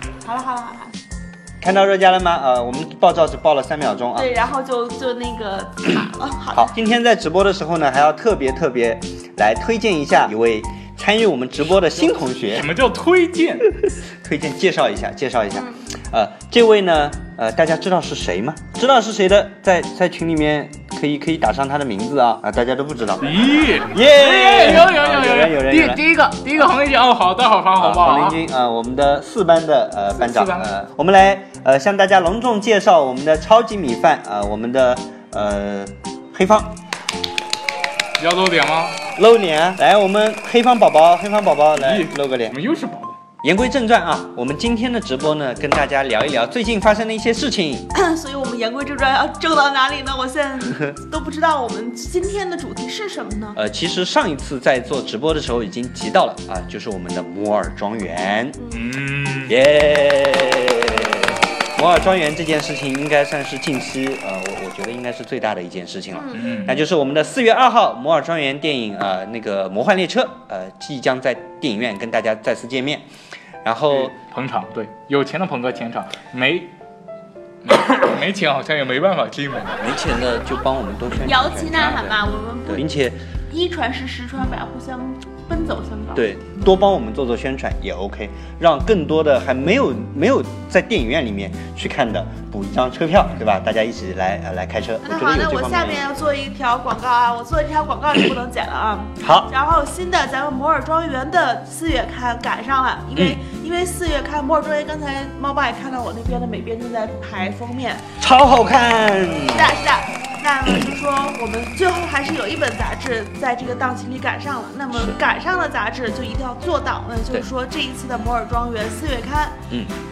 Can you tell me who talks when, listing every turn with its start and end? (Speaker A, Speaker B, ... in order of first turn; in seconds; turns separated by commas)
Speaker A: 0.2-0.9, Speaker B: 1.6-4.3, Speaker A: 4.2-6.7, Speaker B: 6.5-12.7, Speaker C: 12.4-13.7, Speaker B: 13.8-26.0, Speaker A: 15.5-15.8, Speaker C: 23.2-28.4, Speaker B: 27.8-36.8, Speaker C: 30.2-30.7, Speaker C: 38.2-39.0, Speaker B: 39.2-42.6, Speaker C: 41.7-43.2, Speaker B: 43.4-47.9, Speaker A: 47.9-53.6, Speaker B: 53.6-58.6, Speaker A: 58.6-58.8, Speaker C: 58.7-59.6, Speaker B: 59.5-73.1, Speaker C: 66.3-66.8, Speaker B: 73.6-74.2, Speaker C: 73.9-76.7, Speaker C: 77.6-79.8, Speaker B: 79.8-83.2, Speaker A: 81.2-82.9, Speaker C: 81.8-82.1, Speaker A: 83.5-86.3, Speaker B: 86.2-96.1, Speaker A: 95.0-108.1, Speaker B: 99.2-99.5, Speaker B: 108.2-109.7, Speaker A: 109.5-119.6, Speaker B: 114.9-115.2